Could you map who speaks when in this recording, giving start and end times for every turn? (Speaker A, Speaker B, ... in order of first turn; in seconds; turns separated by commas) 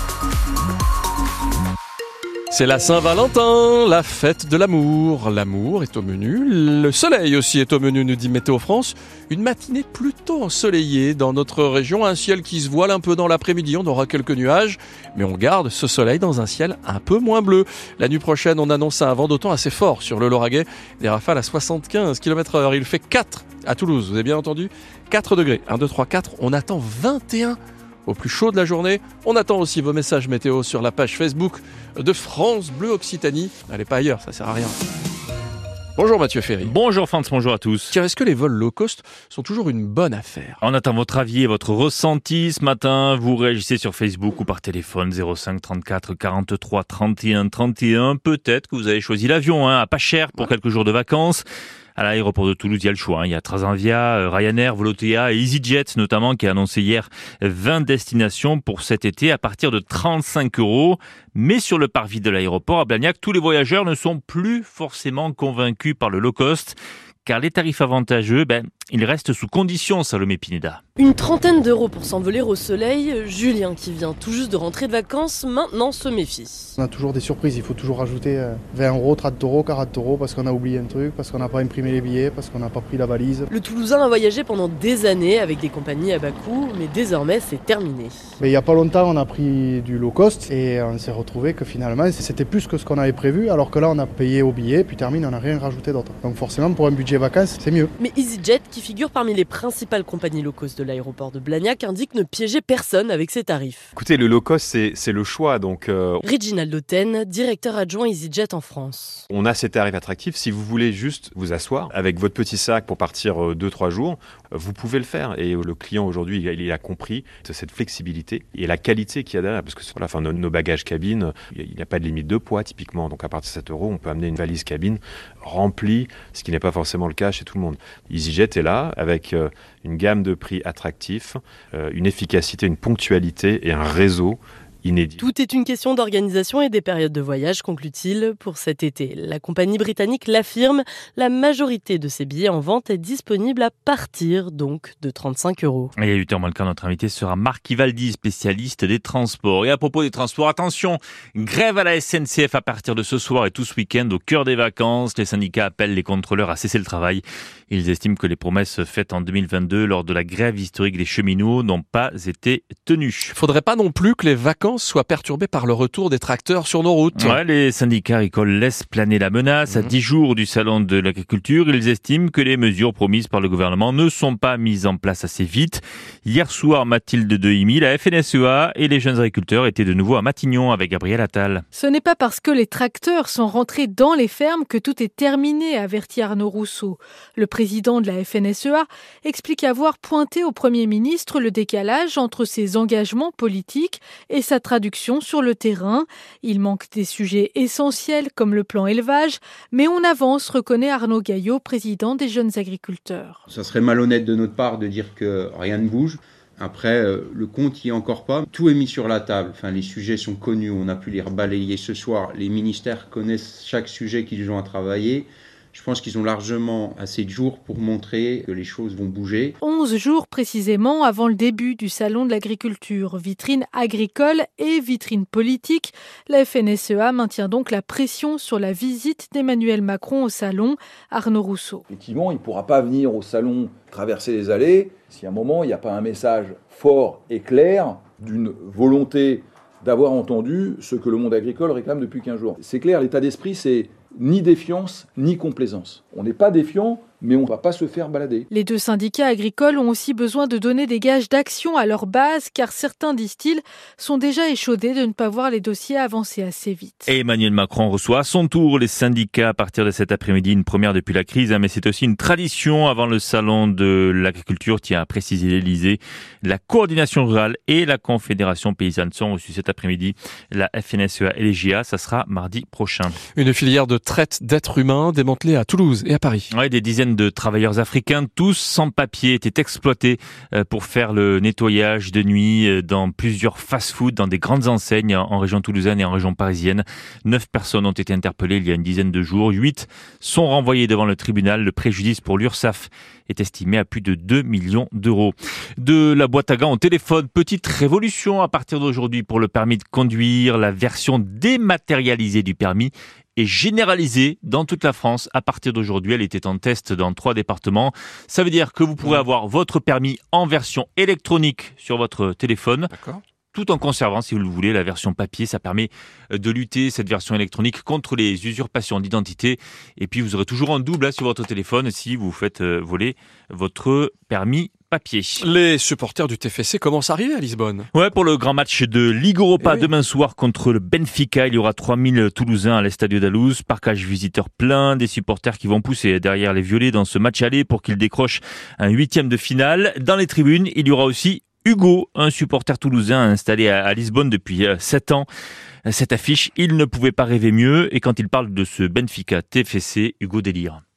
Speaker A: 2.5-34.8, Speaker A: 36.0-36.7, Speaker B: 36.6-38.0, Speaker A: 37.9-40.6, Speaker B: 40.6-51.4, Speaker B: 52.0-70.8, Speaker C: 71.0-76.7, Speaker D: 76.8-83.5, Speaker C: 83.5-88.2, Speaker D: 88.4-97.9, Speaker C: 98.0-103.9, Speaker E: 103.9-106.2, Speaker C: 106.2-109.2, Speaker E: 109.3-135.2, Speaker C: 135.2-145.9, Speaker B: 145.9-163.3, Speaker A: 163.3-167.4, Speaker B: 167.1-181.6, Speaker A: 169.7-169.9, Speaker F: 181.7-203.4, Speaker G: 203.5-219.6, Speaker F: 219.6-231.8, Speaker H: 231.9-248.5, Speaker F: 248.5-257.1, Speaker B: 257.1-273.2, Speaker A: 273.3-276.5, Speaker B: 276.5-312.9, Speaker B: 313.5-325.4, Speaker A: 325.4-327.9, Speaker B: 327.9-345.3, Speaker A: 329.6-329.9, Speaker B: 345.9-350.8